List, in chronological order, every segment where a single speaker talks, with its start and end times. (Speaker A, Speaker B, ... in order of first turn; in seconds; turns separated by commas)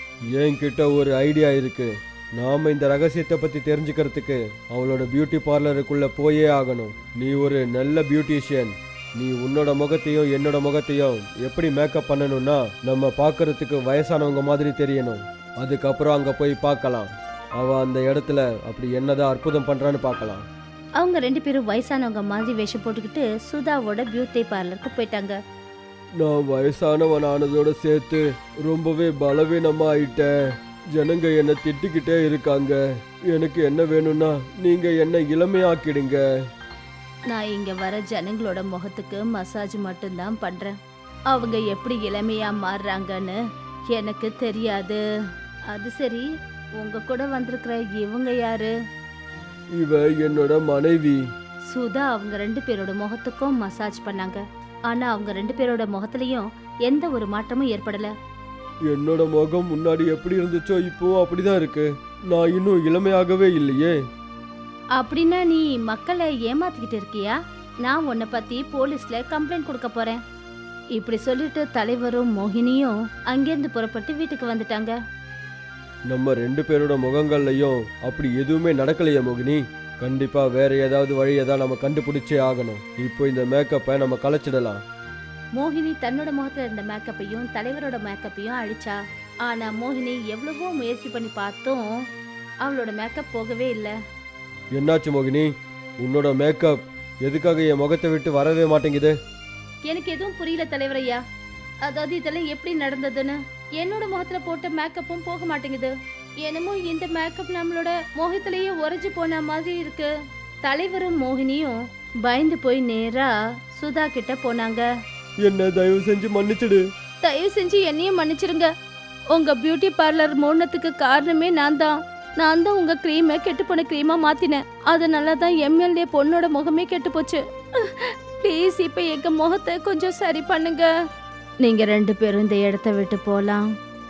Speaker A: 0.3-20.4, Speaker B: 21.0-25.4, Speaker A: 26.2-30.3, Speaker A: 30.9-32.8, Speaker A: 33.3-36.2, Speaker B: 37.3-40.7, Speaker B: 41.3-43.4, Speaker B: 43.9-45.0, Speaker B: 45.7-46.2, Speaker B: 46.8-48.7, Speaker A: 49.8-51.2, Speaker B: 51.7-58.1, Speaker A: 58.9-64.0, Speaker B: 65.0-70.2, Speaker B: 71.0-75.0, Speaker A: 76.1-84.8, Speaker B: 85.6-91.8, Speaker B: 92.6-94.0, Speaker A: 94.8-99.1, Speaker B: 99.9-101.2, Speaker B: 101.8-110.1, Speaker B: 110.7-114.9, Speaker A: 115.4-116.8, Speaker B: 117.2-118.7, Speaker B: 119.3-130.9, Speaker B: 131.6-133.7